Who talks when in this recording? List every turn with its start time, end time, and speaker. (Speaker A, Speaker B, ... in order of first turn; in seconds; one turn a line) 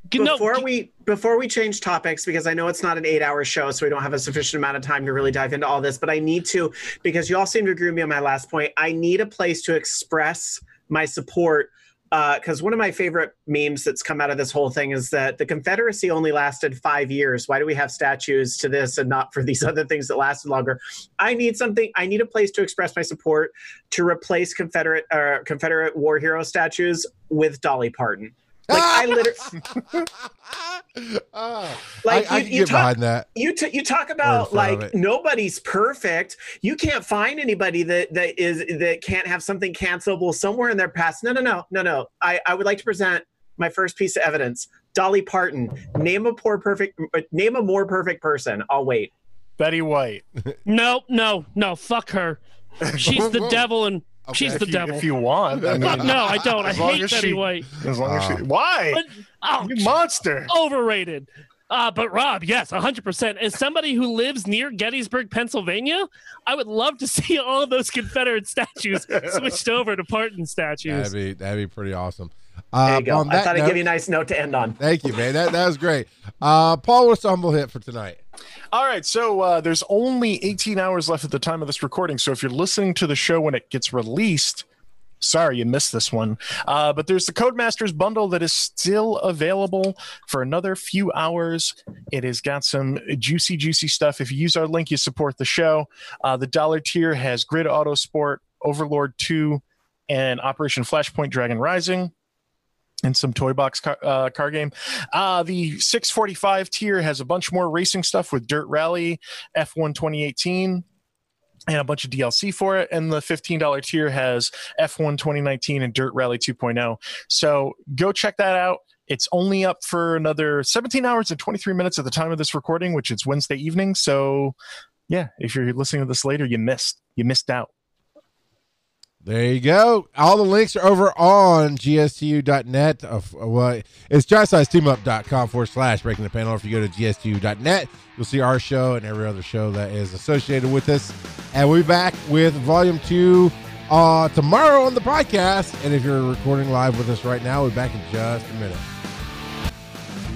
Speaker A: 0.1-0.7
Speaker B: 0.2-29.6
Speaker C: 28.7-33.3
Speaker B: 32.0-49.1
Speaker C: 34.2-34.9
Speaker D: 49.6-50.2
Speaker A: 50.6-52.4
Speaker D: 52.8-53.2
Speaker A: 52.9-55.0
Speaker C: 53.0-53.7
Speaker C: 54.3-55.0
Speaker D: 54.4-59.0
Speaker C: 55.5-56.5
Speaker A: 55.8-57.7
Speaker C: 58.0-58.4
Speaker A: 58.9-60.0
Speaker D: 59.6-60.5
Speaker A: 60.5-71.1
Speaker C: 70.8-73.8
Speaker B: 72.8-74.8
Speaker C: 74.8-78.2
Speaker D: 78.7-84.7
Speaker D: 85.2-102.1
Speaker D: 103.0-110.8
Speaker D: 111.7-124.5
Speaker D: 125.1-127.7
Speaker C: 129.2-148.8